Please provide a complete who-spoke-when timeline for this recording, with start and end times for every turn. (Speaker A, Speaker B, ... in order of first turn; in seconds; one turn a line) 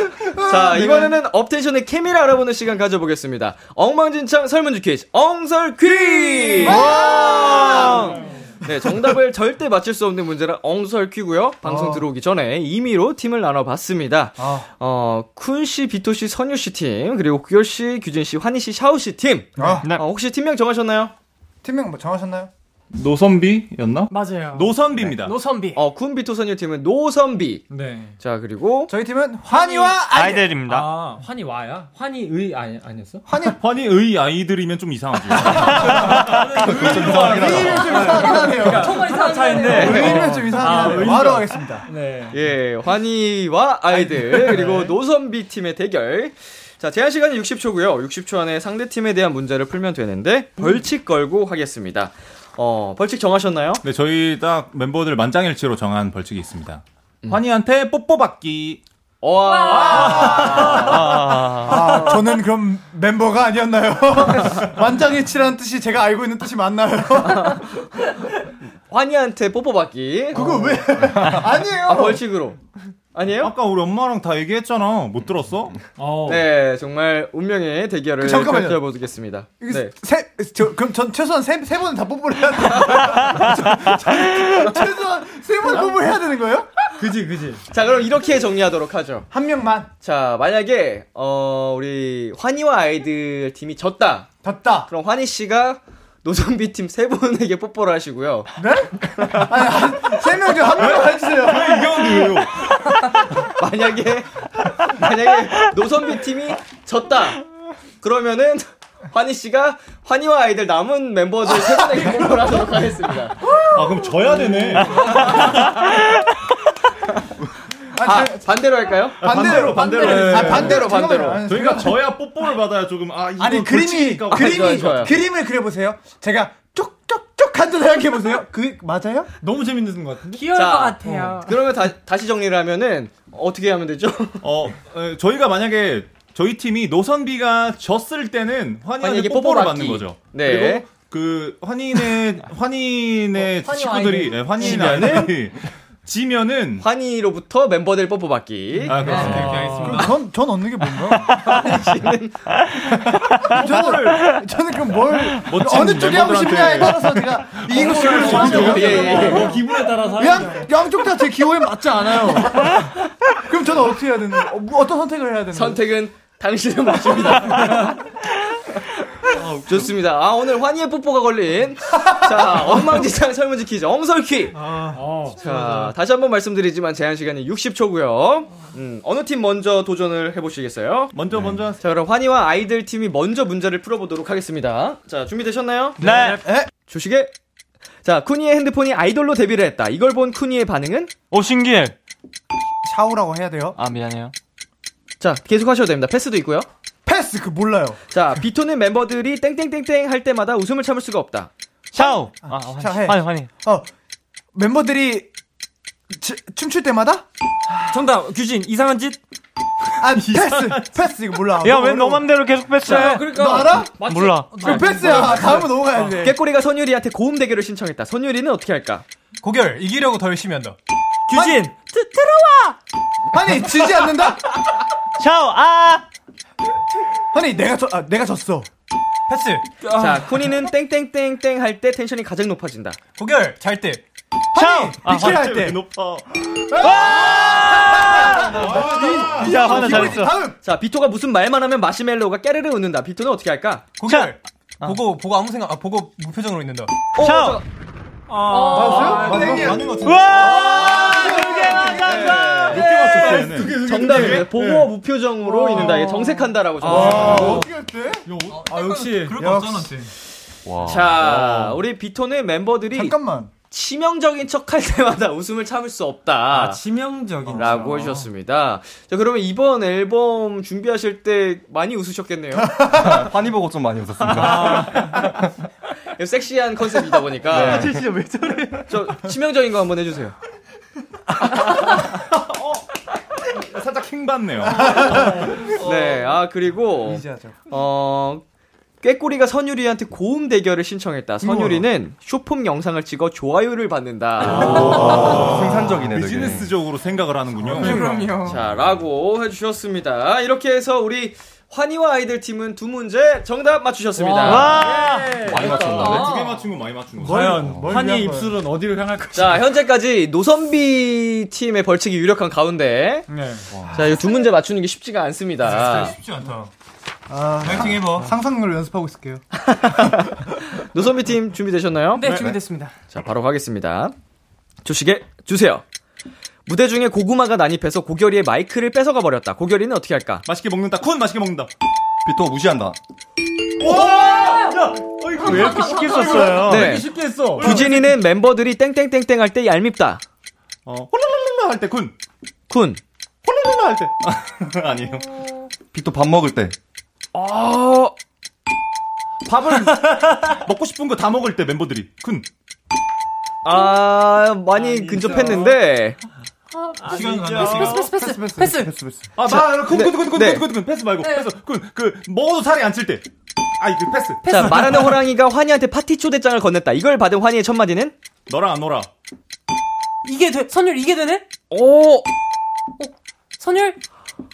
Speaker A: 0.2-1.2
Speaker B: 0.4-21.1
Speaker A: 6.1-9.2
Speaker A: 11.6-12.1
Speaker A: 14.4-14.7
Speaker A: 19.6-19.9
Speaker A: 21.6-22.5
Speaker C: 22.9-25.4
Speaker D: 24.1-25.8
Speaker B: 25.7-27.6
Speaker E: 27.7-28.1
Speaker B: 28.2-28.9
Speaker A: 28.9-30.6
Speaker F: 30.0-30.9
Speaker E: 30.6-33.2
Speaker A: 33.2-33.6
Speaker C: 33.6-36.2
Speaker A: 35.4-36.2
Speaker E: 35.6-42.4
Speaker G: 36.0-38.3
Speaker A: 37.1-41.9
Speaker D: 37.9-40.5
Speaker B: 39.6-40.3
Speaker B: 42.3-53.8
Speaker E: 44.2-44.9
Speaker C: 53.8-58.8
Speaker B: 59.2-61.3
Speaker D: 59.4-60.4
Speaker A: 59.7-67.7
Speaker F: 60.8-61.9
Speaker B: 67.2-67.8
Speaker B: 68.9-70.5
Speaker A: 70.3-72.2
Speaker B: 71.8-72.6
Speaker B: 73.1-73.5
Speaker C: 73.4-75.8
Speaker E: 76.0-76.5
Speaker B: 76.2-79.9
Speaker A: 78.2-78.8
Speaker A: 79.6-86.7
Speaker E: 87.0-87.6
Speaker B: 87.7-89.3
Speaker A: 89.3-89.9
Speaker B: 90.0-94.3
Speaker A: 94.4-94.9
Speaker B: 94.9-98.5
Speaker A: 98.5-102.5
Speaker B: 99.2-99.5
Speaker C: 100.7-102.8
Speaker B: 103.4-107.4
Speaker B: 108.0-113.4
Speaker A: 111.7-112.5
Speaker A: 113.4-115.3
Speaker C: 113.7-115.1
Speaker B: 115.1-115.9
Speaker A: 117.9-122.1
Speaker B: 118.0-121.4
Speaker C: 119.2-125.2
Speaker A: 123.4-129.3
Speaker B: 124.3-125.1
Speaker E: 129.4-130.5
Speaker D: 130.3-131.5
Speaker B: 130.5-134.4
Speaker C: 134.4-146.8
Speaker B: 139.0-140.8
Speaker D: 143.5-144.7
Speaker B: 144.6-145.3
Speaker B: 146.8-149.1
Speaker C: 148.9-149.9
Speaker H: 148.9-150.2
Speaker E: 149.0-150.1
Speaker A: 149.8-151.7
Speaker B: 151.3-152.6
Speaker A: 153.4-165.8
Speaker B: 153.5-154.2
Speaker C: 155.4-159.4
Speaker E: 157.8-160.7
Speaker B: 158.0-159.6
Speaker B: 165.5-168.1
Speaker A: 167.3-167.7
Speaker B: 168.7-168.9
Speaker B: 169.5-174.7
Speaker A: 172.1-172.7
Speaker A: 174.5-175.1
Speaker E: 174.9-175.9
Speaker B: 175.3-181.1
Speaker C: 181.1-181.8
Speaker B: 181.8-186.0
Speaker F: 186.0-186.4
Speaker A: 186.0-186.7
Speaker B: 186.9-187.3
Speaker B: 188.0-191.1
Speaker F: 191.3-191.9
Speaker A: 192.8-193.8
Speaker F: 193.7-194.3
Speaker B: 195.2-196.7
Speaker A: 197.1-198.0
Speaker B: 198.1-201.5
Speaker F: 201.9-203.5
Speaker A: 202.0-203.9
Speaker A: 204.5-205.3
Speaker A: 206.1-207.2
Speaker E: 207.8-209.2
Speaker A: 210.0-212.3
Speaker E: 210.5-210.8
Speaker F: 211.6-213.4
Speaker E: 212.7-216.0
Speaker A: 212.9-216.3
Speaker F: 214.0-214.7
Speaker H: 214.5-215.7
Speaker B: 216.2-219.0
Speaker H: 219.4-220.8
Speaker F: 221.3-222.7
Speaker A: 223.3-224.6
Speaker F: 225.2-226.0
Speaker A: 227.3-228.7
Speaker H: 229.3-229.9
Speaker B: 229.9-233.0
Speaker H: 233.2-234.0
Speaker A: 234.5-235.8
Speaker F: 234.5-235.3
Speaker C: 235.1-240.1
Speaker A: 236.7-240.6
Speaker F: 236.8-238.0
Speaker F: 239.4-240.4
Speaker E: 239.5-240.0
Speaker B: 240.6-243.9
Speaker H: 244.0-246.9
Speaker F: 244.1-245.0
Speaker B: 247.1-247.6
Speaker F: 247.2-247.6
Speaker E: 248.3-254.9
Speaker D: 248.4-249.2
Speaker A: 248.7-252.4
Speaker H: 249.0-249.8
Speaker F: 250.0-250.9
Speaker C: 250.2-251.1
Speaker B: 251.9-257.6
Speaker C: 252.4-254.7
Speaker D: 255.7-256.5
Speaker E: 256.8-257.7
Speaker A: 256.8-260.0
Speaker C: 256.9-257.6
Speaker E: 258.3-259.6
Speaker H: 258.5-260.1
Speaker G: 260.6-261.1
Speaker B: 260.8-263.1
Speaker C: 261.2-261.8
Speaker A: 262.9-263.5
Speaker B: 263.7-266.8
Speaker E: 266.5-268.3
Speaker B: 267.5-272.7
Speaker A: 272.6-273.3
Speaker G: 272.8-275.4
Speaker E: 274.3-275.2
Speaker B: 276.1-278.0
Speaker G: 277.5-278.1
Speaker A: 277.5-278.8
Speaker E: 277.5-278.1
Speaker B: 278.9-280.3
Speaker C: 281.9-282.8
Speaker C: 283.5-285.3
Speaker A: 284.7-285.6
Speaker B: 285.8-288.4
Speaker A: 287.0-287.6
Speaker B: 289.0-295.2
Speaker A: 291.4-291.9
Speaker C: 294.4-298.0
Speaker G: 294.5-296.7
Speaker A: 297.6-298.3
Speaker D: 297.8-298.6
Speaker B: 298.4-305.0
Speaker E: 304.2-306.1
Speaker F: 304.4-305.3
Speaker C: 304.5-307.8
Speaker G: 305.5-306.2
Speaker B: 305.7-306.0
Speaker D: 305.7-306.6
Speaker E: 307.2-309.7
Speaker A: 307.2-308.6
Speaker G: 307.5-307.9
Speaker B: 309.3-313.3
Speaker E: 313.3-313.7
Speaker G: 313.7-314.1
Speaker B: 313.9-316.1
Speaker H: 315.9-316.7
Speaker A: 317.3-319.4
Speaker H: 317.7-318.3
Speaker B: 319.5-322.4
Speaker D: 322.1-322.9
Speaker G: 322.2-322.6
Speaker B: 323.1-324.1
Speaker B: 324.8-325.8
Speaker B: 326.7-330.4
Speaker C: 330.4-331.7
Speaker G: 332.2-333.0
Speaker C: 333.8-338.0
Speaker D: 333.9-334.8
Speaker E: 335.4-337.9
Speaker D: 335.5-336.7
Speaker B: 336.6-340.2
Speaker C: 340.9-342.1
Speaker B: 342.7-343.0
Speaker C: 343.4-345.4
Speaker G: 345.9-346.8
Speaker B: 347.3-348.1
Speaker B: 349.5-349.9
Speaker C: 350.4-352.4
Speaker B: 353.6-356.2
Speaker E: 354.7-355.8
Speaker D: 356.8-358.9
Speaker A: 357.1-359.3
Speaker B: 357.1-357.4
Speaker E: 357.1-357.9
Speaker H: 357.1-357.6
Speaker C: 359.4-363.3
Speaker B: 359.4-360.7
Speaker D: 361.2-361.5
Speaker C: 363.8-365.1
Speaker B: 364.4-368.1
Speaker C: 368.5-369.1
Speaker D: 370.2-371.5
Speaker B: 371.7-372.3
Speaker D: 373.0-374.0